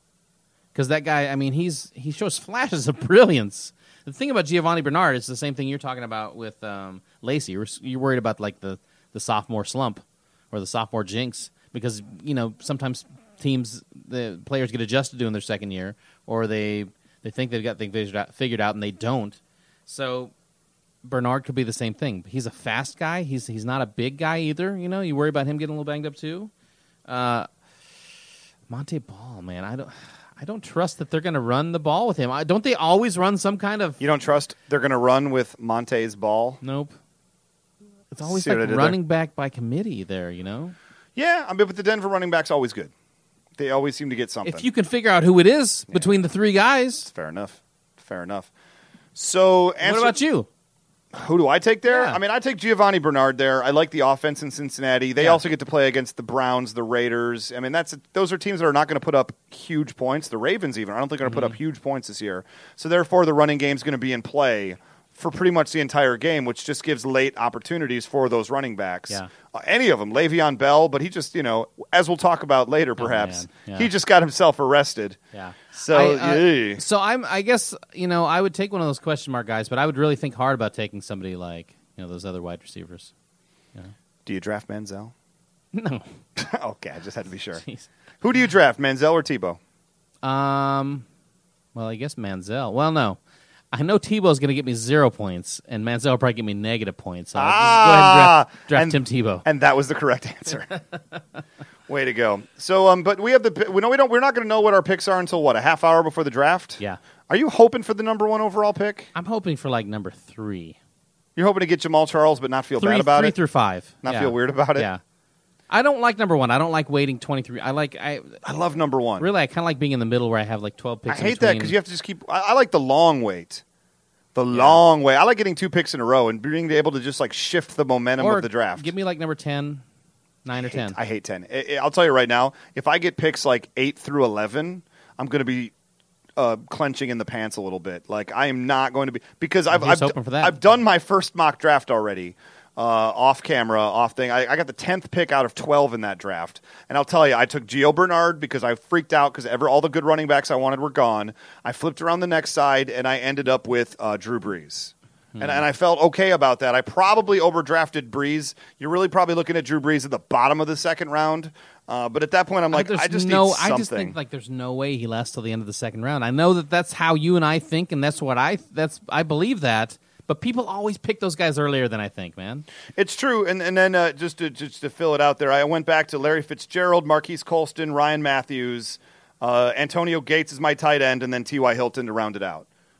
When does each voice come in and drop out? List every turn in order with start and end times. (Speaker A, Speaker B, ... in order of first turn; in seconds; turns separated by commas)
Speaker A: 0.7-20.3, Speaker A: 21.0-26.5, Speaker A: 27.1-27.5, Speaker A: 28.7-34.0, Speaker B: 34.0-36.6, Speaker A: 36.6-36.9, Speaker A: 38.1-40.7, Speaker B: 38.2-39.0, Speaker B: 41.1-42.9, Speaker B: 43.6-44.6, Speaker A: 44.4-47.1, Speaker B: 45.9-46.1, Speaker B: 47.1-48.5, Speaker B: 49.1-50.1, Speaker A: 49.8-50.5, Speaker B: 51.1-75.2, Speaker A: 51.9-52.2, Speaker A: 61.2-61.5, Speaker A: 73.0-73.9, Speaker A: 75.3-83.1, Speaker B: 75.7-76.8, Speaker B: 84.2-85.1, Speaker A: 85.7-86.0, Speaker B: 86.4-87.6, Speaker A: 87.6-87.9, Speaker B: 88.2-89.6, Speaker A: 90.2-91.0, Speaker A: 91.7-93.2, Speaker A: 93.7-99.4, Speaker B: 97.3-100.7, Speaker B: 101.9-109.1, Speaker A: 109.1-110.8, Speaker B: 111.3-113.3, Speaker A: 112.8-115.0, Speaker B: 114.0-114.9, Speaker A: 115.7-118.4, Speaker B: 118.4-119.3, Speaker A: 119.2-121.7, Speaker B: 121.1-123.6, Speaker B: 124.3-128.9, Speaker A: 124.5-124.8, Speaker A: 128.2-129.8, Speaker A: 130.4-131.0, Speaker B: 130.6-135.7, Speaker B: 136.4-164.2, Speaker A: 139.7-140.6, Speaker A: 155.3-155.6, Speaker A: 162.7-172.7, Speaker B: 172.9-182.7